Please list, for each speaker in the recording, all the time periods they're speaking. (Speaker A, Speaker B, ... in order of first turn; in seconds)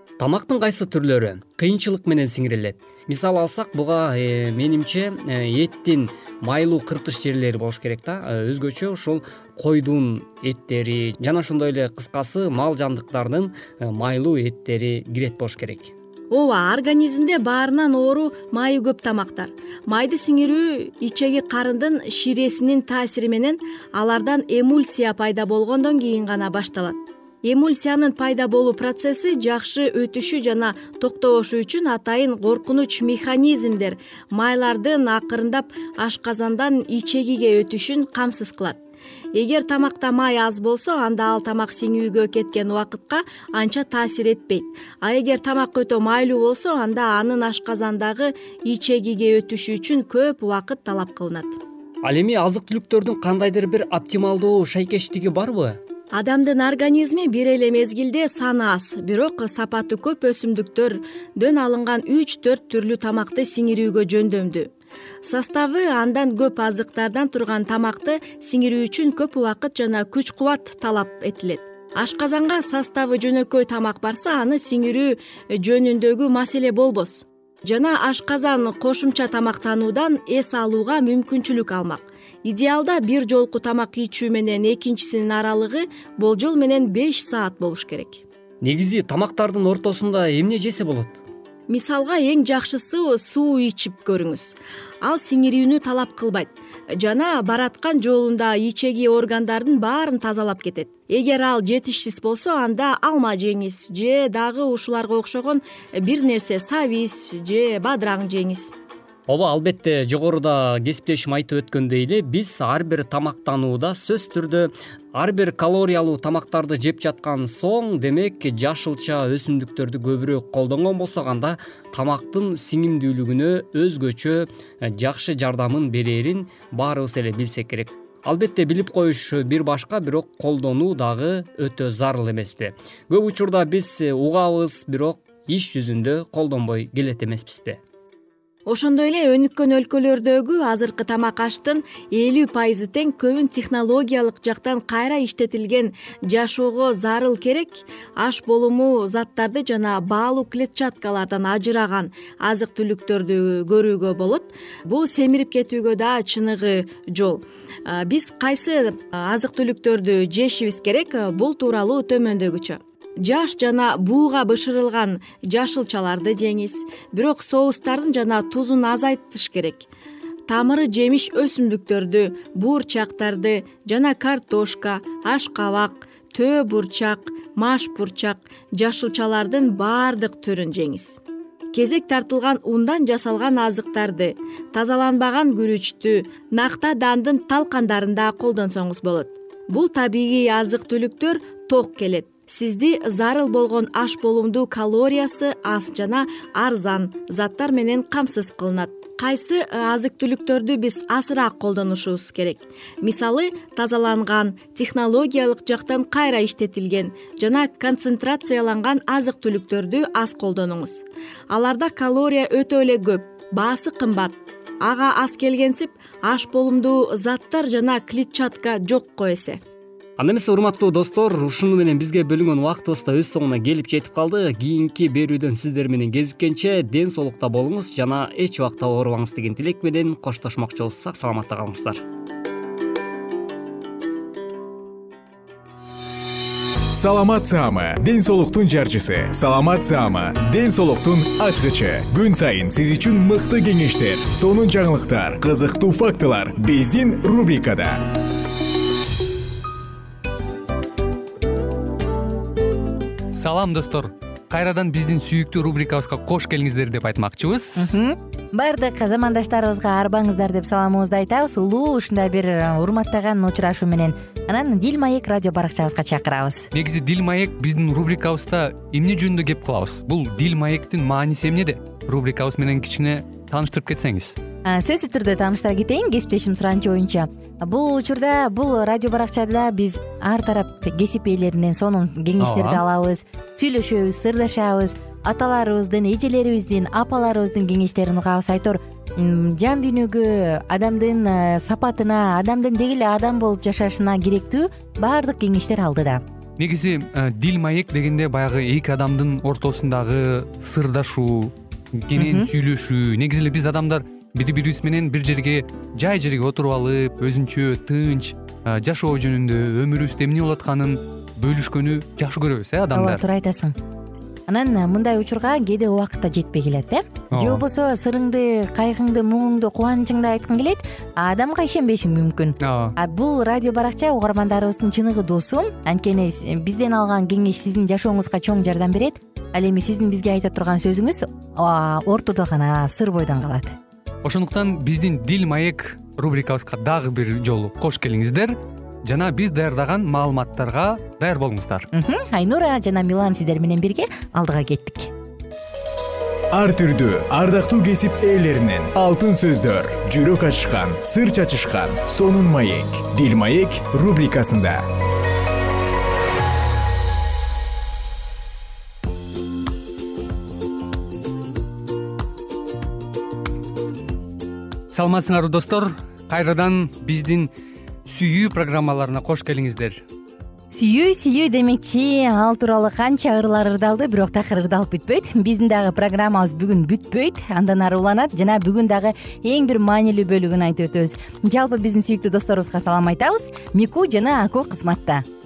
Speaker A: 0.2-15.9, 52.0-55.8, 88.6-91.2, 109.3-137.8, 220.2-232.0
Speaker B: 16.3-38.8, 39.3-51.6, 56.1-64.7, 65.2-88.2, 91.7-108.7, 138.7-169.9, 170.5-181.2, 181.7-219.6
Speaker C: 236.9-248.0, 346.5-354.8
Speaker D: 253.3-258.0, 266.7-274.4, 282.4-282.8, 296.6-313.2, 317.3-317.6, 322.6-323.0, 334.2-341.9, 364.9-367.5, 368.1-370.0
Speaker E: 257.8-266.7, 274.6-296.2, 302.1-302.5, 312.9-313.8, 314.5-333.8, 341.9-345.1, 370.7-385.2